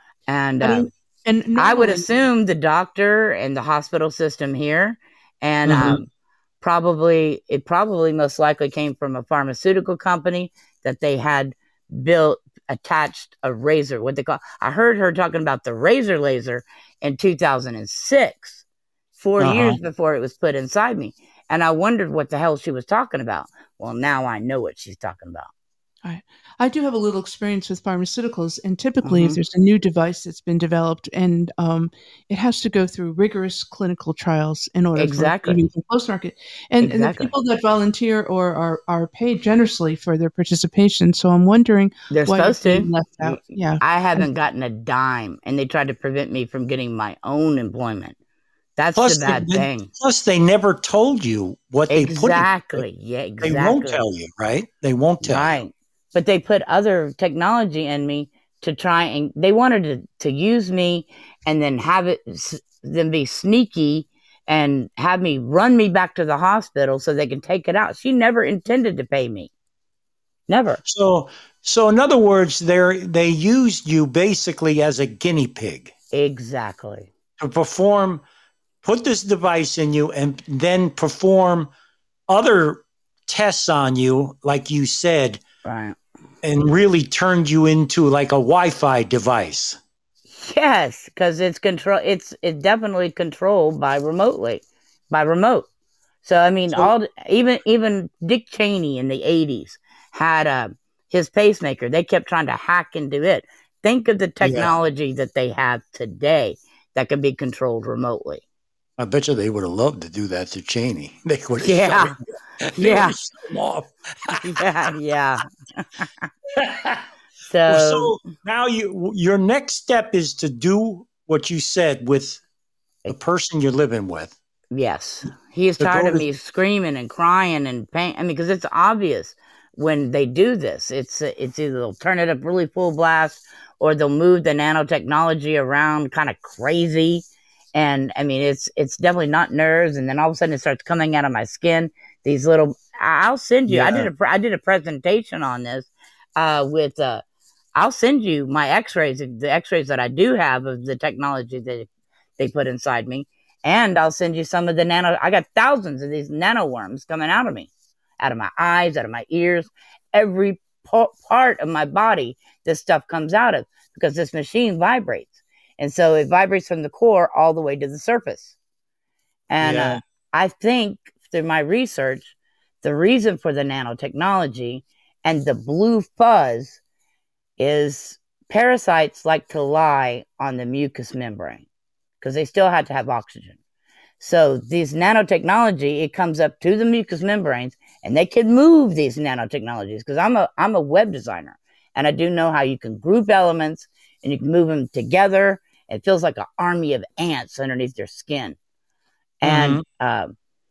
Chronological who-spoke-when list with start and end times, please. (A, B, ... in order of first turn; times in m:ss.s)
0:00.3-0:00.9 A
0:00.6-0:02.0 B
0:01.6-0:06.1 A
0:05.6-0:06.0 C
0:06.6-0:18.6 A
0:19.2-0:25.5 A
0:19.4-0:19.8 C
0:26.0-0:44.3 B
0:29.0-0:29.4 A
0:34.9-0:35.6 A
0:36.8-0:37.3 A
0:42.1-0:48.2 A
0:48.8-0:49.9 A
0:48.9-0:52.8 C
0:51.9-0:54.0 A
0:53.4-0:55.6 C
0:55.2-1:09.5 A
1:10.5-1:10.8 A
1:10.8-1:15.9 C
1:16.1-1:17.1 A
1:17.4-1:18.2 C
1:18.8-1:21.7 C
1:22.3-1:25.4 C
1:25.6-1:26.0 A
1:26.4-1:29.8 C
1:30.3-1:35.6 A
1:36.2-1:48.4 A
1:44.4-1:44.8 C
1:49.0-1:54.6 C
1:51.6-1:52.2 A
1:52.7-1:53.2 A
1:54.3-1:56.3 A
1:56.5-1:57.1 C
1:57.5-1:58.2 A
1:57.6-2:02.4 C
2:03.1-2:04.4 C
2:04.7-2:27.2 A
2:05.8-2:06.2 C
2:23.7-2:24.1 C
2:27.8-2:48.6 A
2:49.5-2:56.8 A
2:49.6-2:50.0 C
2:57.6-3:01.6 A
3:02.2-3:03.6 A
3:04.2-3:18.6 A
3:19.4-3:20.3 A
3:19.4-3:19.8 C